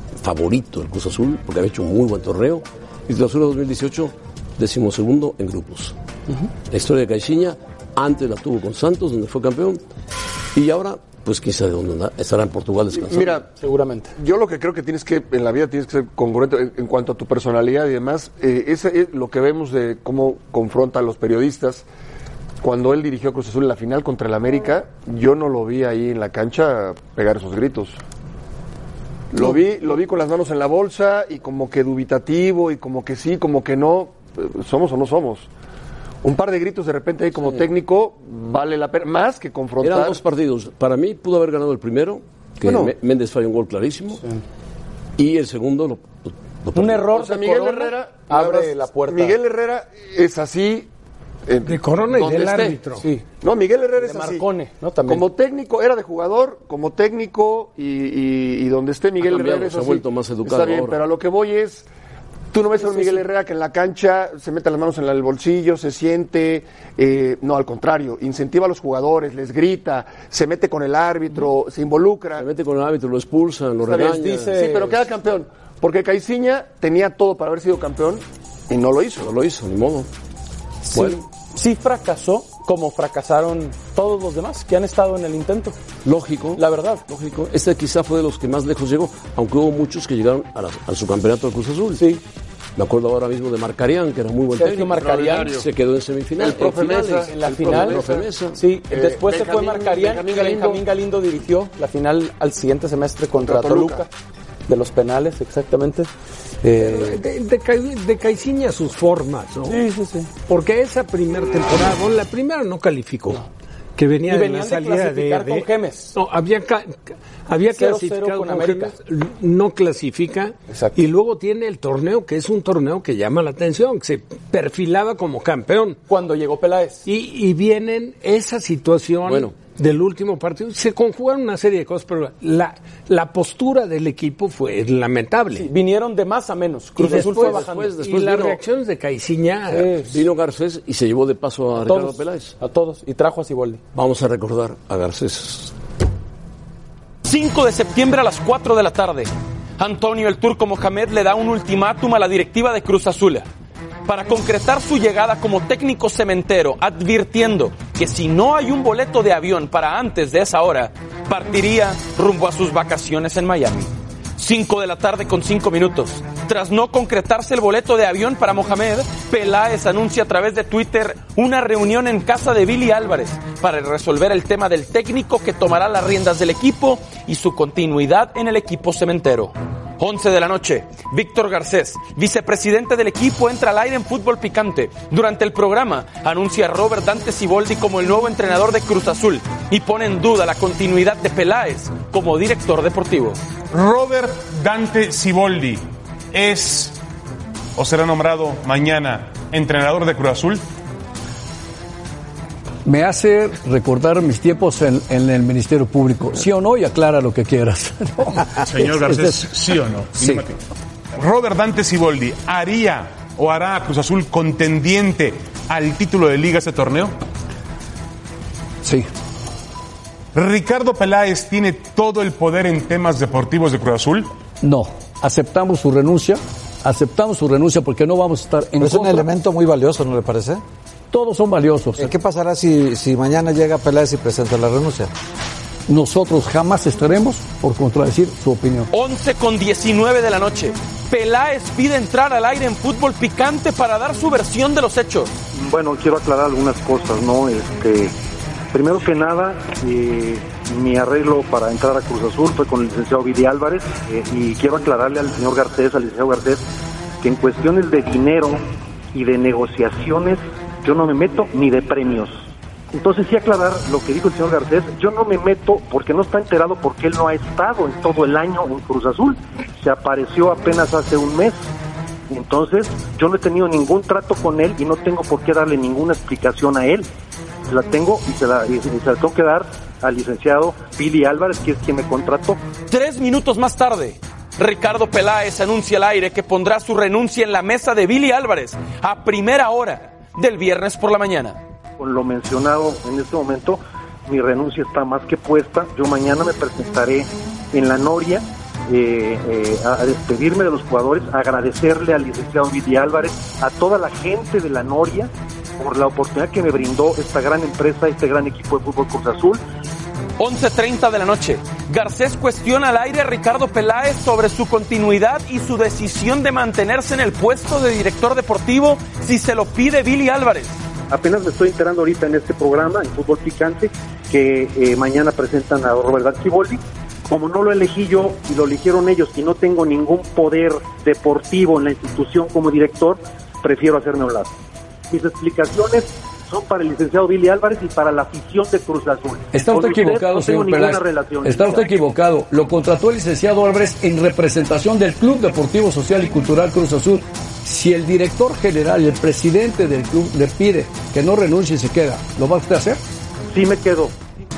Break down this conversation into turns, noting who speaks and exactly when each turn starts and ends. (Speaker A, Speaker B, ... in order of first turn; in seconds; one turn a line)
Speaker A: 0.2-5.9
Speaker A: 6.7-9.8
Speaker A: 10.5-13.4
Speaker B: 12.9-13.5
Speaker C: 13.6-14.1
Speaker B: 14.2-21.8
Speaker B: 22.6-28.0
Speaker B: 29.3-35.5
Speaker B: 36.2-40.2
Speaker A: 39.8-44.2
Speaker B: 42.6-42.9
Speaker A: 45.2-47.1
Speaker C: 46.7-49.4
Speaker B: 47.1-50.9
Speaker B: 51.5-52.8
Speaker D: 51.6-53.1
Speaker C: 53.0-53.2
Speaker B: 53.4-54.5
Speaker C: 54.0-55.2
Speaker B: 55.0-61.9
Speaker A: 59.2-61.0
Speaker B: 62.5-72.5
Speaker C: 62.8-63.2
Speaker A: 72.4-74.6
Speaker B: 73.8-79.3
Speaker C: 74.1-75.0
Speaker A: 79.2-80.1
Speaker C: 80.9-85.8
Speaker A: 80.9-81.2
Speaker A: 86.0-92.1
Speaker C: 86.5-87.0
Speaker C: 92.0-92.2
Speaker A: 92.8-98.6
Speaker C: 94.5-95.5
Speaker B: 94.9-95.7
Speaker B: 96.4-98.3
Speaker C: 97.3-104.1
Speaker B: 98.9-100.8
Speaker B: 103.4-104.0
Speaker C: 104.7-106.1
Speaker C: 106.6-107.2
Speaker D: 106.8-109.8
Speaker C: 109.7-110.3
Speaker D: 110.5-113.4
Speaker D: 114.0-126.0
Speaker C: 114.2-116.2
Speaker C: 117.7-118.9
Speaker C: 120.7-121.0
Speaker C: 126.1-127.0
Speaker D: 127.0-135.7
Speaker A: 129.2-129.5
Speaker C: 135.5-137.9
Speaker D: 137.0-140.0
Speaker A: 137.1-138.6
Speaker C: 139.7-140.1
Speaker A: 140.1-142.5
Speaker C: 141.8-143.8
Speaker A: 143.9-145.7
Speaker C: 147.2-153.5
Speaker C: 154.1-193.4
Speaker E: 193.7-197.0
Speaker E: 197.8-200.6
Speaker F: 202.8-209.4
Speaker E: 208.6-210.6
Speaker E: 211.1-217.1
Speaker F: 218.8-219.1
Speaker E: 220.3-224.3
Speaker F: 224.6-229.3
Speaker G: 228.8-230.6
Speaker F: 231.1-232.1
Speaker G: 232.0-235.1
Speaker F: 235.9-238.9
Speaker C: 238.9-245.3
Speaker H: 245.5-248.1
Speaker H: 248.7-256.6
Speaker H: 257.2-271.6
Speaker H: 272.3-277.1
Speaker H: 277.7-282.6
Speaker C: 282.9-291.6
Speaker H: 292.0-309.6
Speaker C: 310.4-320.8
Speaker H: 321.1-334.5
Speaker H: 335.1-341.9
Speaker F: 339.5-353.0
Speaker H: 353.5-354.1